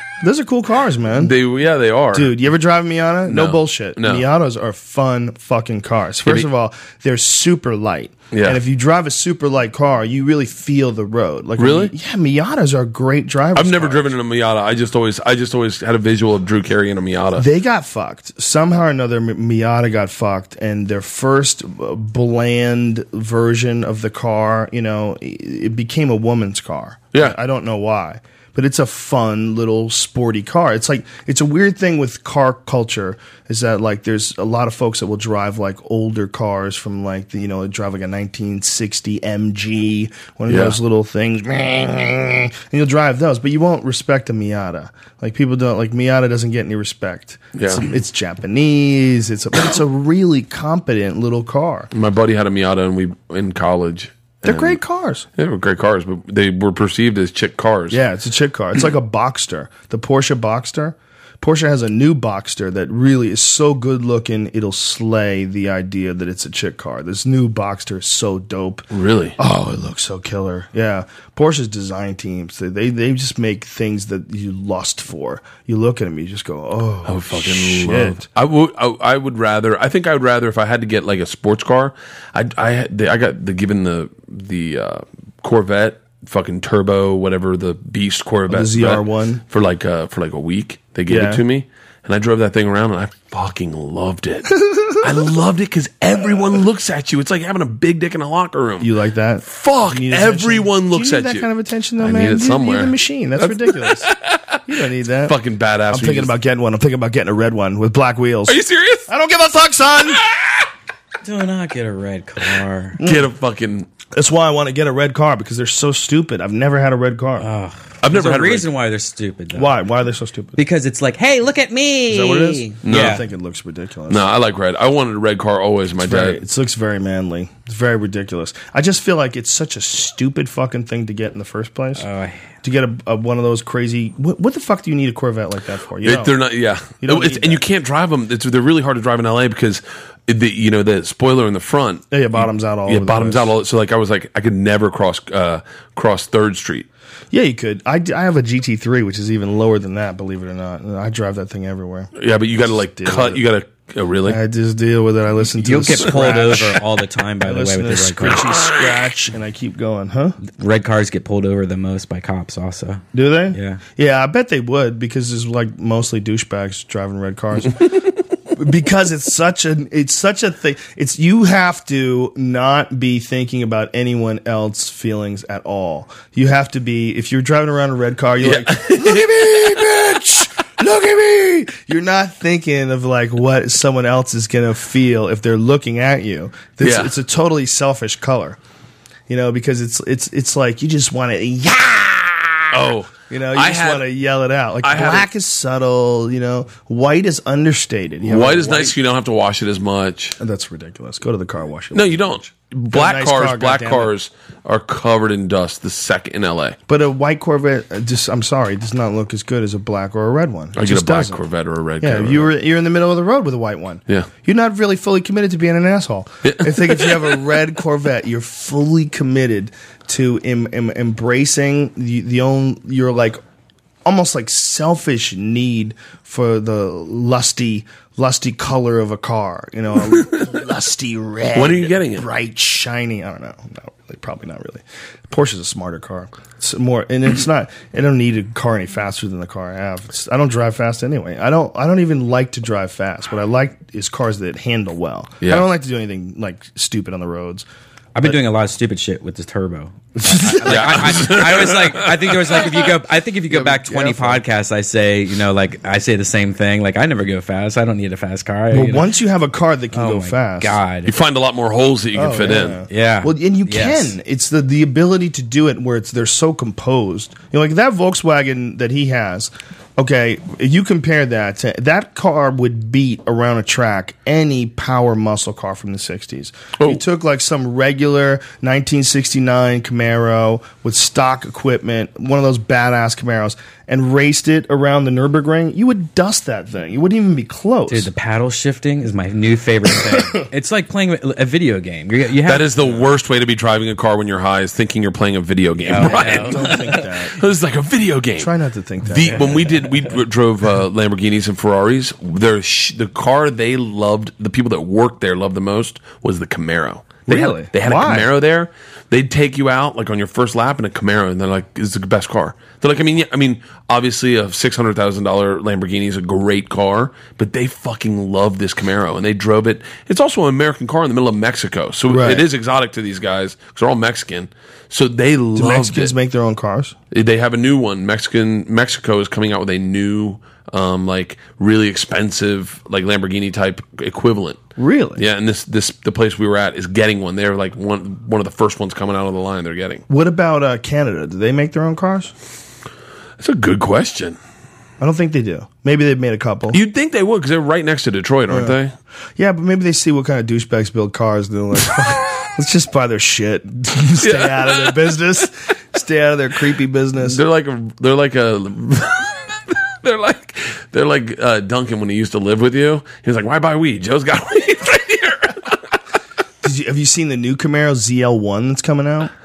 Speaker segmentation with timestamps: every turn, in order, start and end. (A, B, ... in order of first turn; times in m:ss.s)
0:00.2-0:01.3 A
0:01.2-0:02.3 B
0:02.1-0:14.1 A
0:03.3-0:04.3 B
0:06.2-0:06.5 B
0:08.3-0:08.6 B
0:11.6-0:11.9 B
0:13.6-0:17.4 B
0:17.4-0:51.9 A
0:40.5-0:40.8 B
0:47.6-0:47.9 B
0:51.9-0:54.8 B
0:54.4-0:55.3 A
0:55.4-0:58.0 B
0:57.9-1:08.9 A
1:08.9-1:09.4 B
1:09.4-1:18.2 A
1:17.0-1:38.9 B
1:28.5-1:29.4 A
1:31.1-1:31.4 A
1:34.6-1:35.0 A
1:38.8-1:44.1 A
1:39.4-1:44.6 B
1:44.7-1:45.3 A
1:45.2-1:46.3 B
1:45.9-1:48.6 A
1:48.5-1:49.1 B
1:49.1-1:50.2 A
1:50.2-1:50.7 B
1:51.2-1:53.0 C
1:53.0-1:53.3 A
1:53.0-1:53.9 B
1:54.1-1:57.5 A
1:57.4-1:59.8 C
1:58.0-1:58.7 B
1:59.5-2:00.6 A
2:00.6-2:03.2 C
2:02.1-2:04.3 A
2:02.9-2:03.2 B
2:04.1-2:06.4 B
2:06.0-2:12.0 A
2:12.0-2:12.5 C
2:12.6-2:16.3 A
2:16.0-2:26.9 B
2:17.0-2:17.6 A
2:22.1-2:23.5 A
2:27.3-2:32.1 A
2:32.1-2:34.4 B
2:32.6-2:33.4 A
2:34.3-2:36.8 A
2:35.6-2:38.4 C
2:37.4-2:40.4 A
2:38.4-2:39.0 B
2:40.4-2:43.8 C
2:43.1-2:48.0 A
2:48.5-3:08.6 A
2:58.4-3:00.4 B
3:06.8-3:07.1 B
3:09.3-3:19.0 A
3:12.7-3:14.1 B
3:14.8-3:15.3 B
3:18.2-3:20.4 B
3:20.4-3:24.1 A
3:21.9-3:26.8 B
3:26.9-3:31.4 A
3:30.8-3:32.5 B
3:32.0-3:43.4 A
3:36.4-3:37.4 B
3:44.0-4:07.6 A
3:50.1-3:50.5 B
3:51.6-3:52.3 B
4:08.1-4:19.1 C
4:10.2-4:11.1 A
4:10.7-4:12.8 B
4:13.5-4:14.4 A
4:18.7-4:20.8 A
4:19.9-4:21.1 C
4:21.0-4:22.8 B
4:22.1-4:48.1 A
4:22.9-4:24.1 C
4:47.9-4:52.7 C
4:52.4-4:58.5 B
4:55.8-4:57.0 C
4:56.0-4:57.4 A
4:58.4-4:59.6 A
4:59.0-5:26.1 B
4:59.3-4:59.6 C
5:07.3-5:08.3 A
5:22.1-5:22.4 A
5:25.6-5:27.0 A
5:27.1-5:34.6 B
5:34.8-5:35.2 A
5:35.2-5:40.0 B
5:40.1-5:42.3 A
5:43.4-5:44.4 B
5:45.0-5:46.8 A
5:46.7-5:48.9 B
5:48.5-5:48.8 A
5:49.4-5:57.4 A
5:54.2-5:55.2 B
5:57.2-6:05.8 B
6:06.6-6:09.3 A